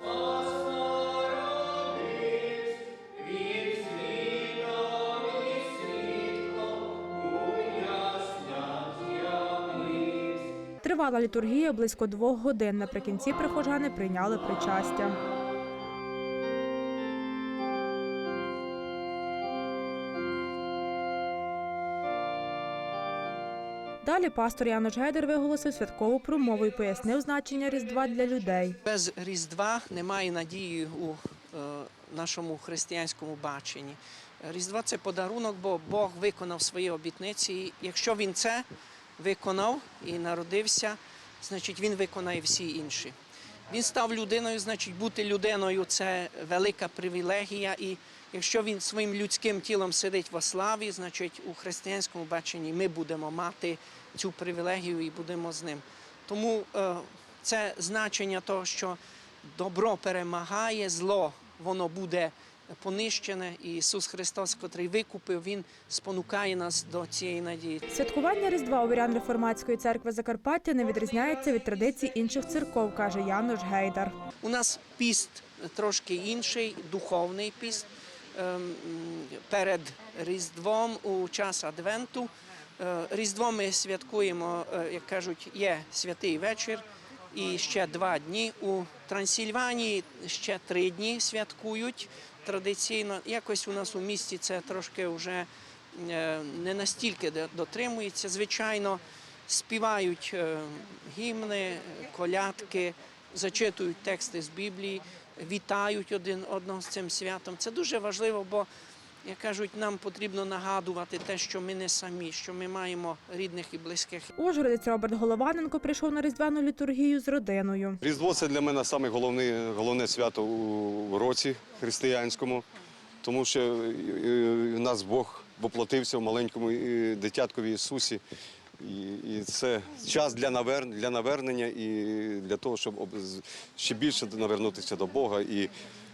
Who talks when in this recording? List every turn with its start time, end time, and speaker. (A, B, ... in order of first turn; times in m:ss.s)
0:00.3-0:10.3 A
0:10.8-0:15.2 B
0:24.0-0:28.8 B
0:28.8-0:38.7 A
0:39.2-0:43.2 A
0:43.7-1:07.9 A
1:07.9-1:14.2 B
1:14.4-1:48.7 A
1:49.2-1:54.3 A
1:54.4-1:58.0 B
1:58.0-2:02.6 C
2:03.2-2:08.2 C
2:08.8-2:15.7 C